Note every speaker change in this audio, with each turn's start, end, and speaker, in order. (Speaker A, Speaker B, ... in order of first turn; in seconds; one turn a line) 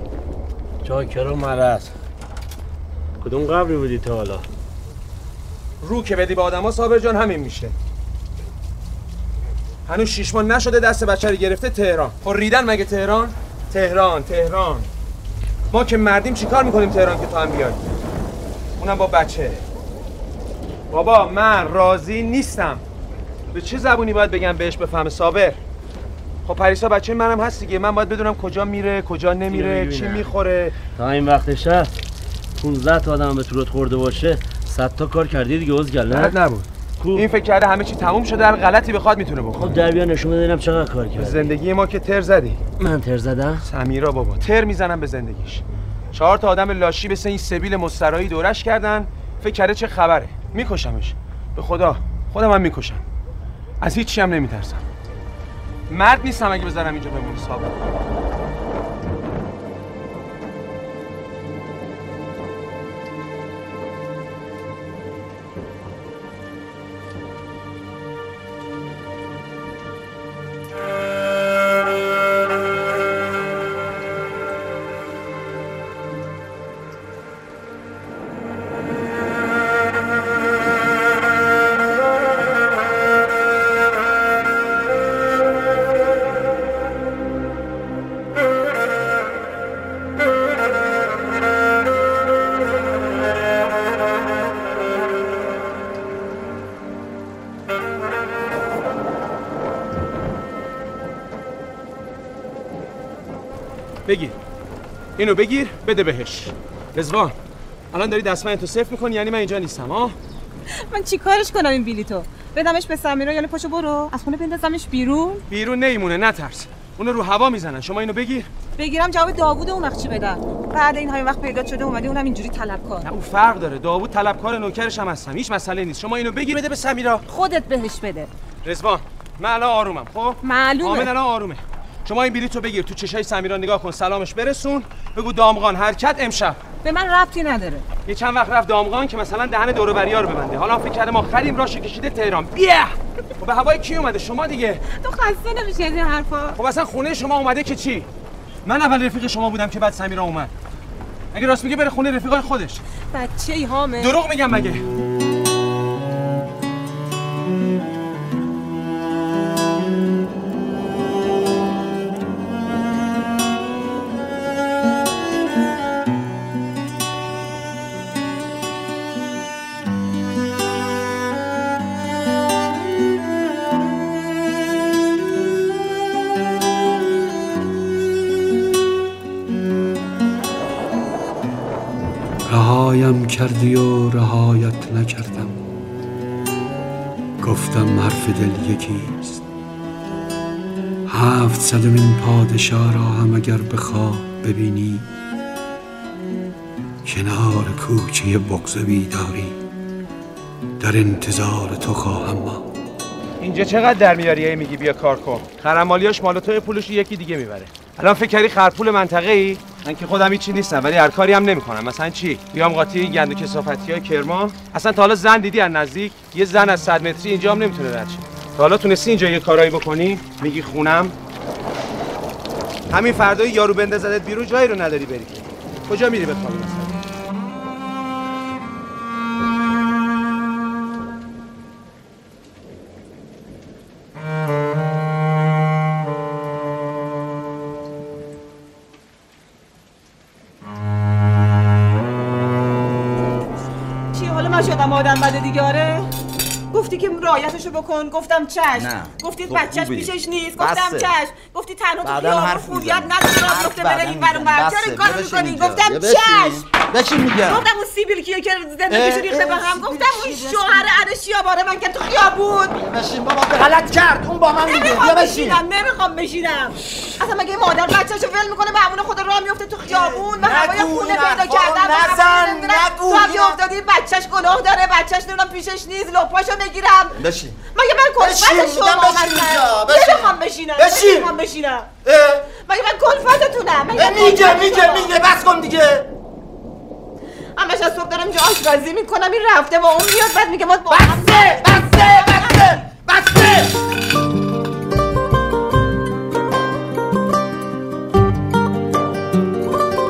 Speaker A: 0.8-1.9
Speaker A: 3.2-4.4
Speaker B: 5.8-7.7
Speaker B: 9.9-14.9
Speaker B: 15.7-17.8
Speaker B: 18.8-19.6
Speaker B: 20.9-22.8
Speaker B: 23.5-25.6
Speaker B: 26.4-30.7
Speaker A: 29.5-30.3
Speaker A: 30.9-31.9
Speaker A: 32.6-36.4
Speaker B: 36.1-39.8
Speaker A: 37.0-37.3
Speaker A: 39.5-41.5
Speaker B: 41.2-42.6
Speaker A: 42.8-43.7
Speaker B: 43.6-53.0
Speaker B: 53.8-54.8
Speaker B: 55.9-57.7
Speaker B: 104.0-104.3
Speaker B: 105.2-107.3
Speaker B: 107.9-110.2
Speaker C: 110.9-115.4
Speaker B: 115.5-118.5
Speaker C: 118.8-123.0
Speaker B: 123.0-127.2
Speaker C: 127.3-128.3
Speaker B: 128.6-136.6
Speaker C: 130.4-131.1
Speaker C: 136.8-137.8
Speaker B: 138.0-144.8
Speaker C: 144.9-146.6
Speaker B: 146.6-148.1
Speaker B: 148.6-150.5
Speaker B: 151.3-152.8
Speaker C: 153.1-154.1
Speaker B: 154.0-154.8
Speaker D: 182.5-185.6
Speaker D: 187.4-189.4
Speaker D: 191.1-195.1
Speaker D: 197.1-199.6
Speaker D: 200.8-202.6
Speaker B: 203.4-221.1
Speaker B: 222.9-227.0
Speaker C: 244.1-246.1
Speaker C: 246.7-262.9
Speaker E: 248.8-251.1
Speaker E: 252.0-257.7
Speaker E: 258.9-260.9
Speaker E: 262.8-265.6
Speaker C: 263.6-263.9
Speaker C: 264.5-281.9
Speaker E: 269.9-273.6
Speaker E: 277.2-277.6
Speaker E: 278.2-281.3
Speaker E: 282.0-282.5
Speaker C: 282.5-285.1
Speaker E: 283.9-286.1
Speaker C: 287.6-292.8
Speaker E: 290.9-293.7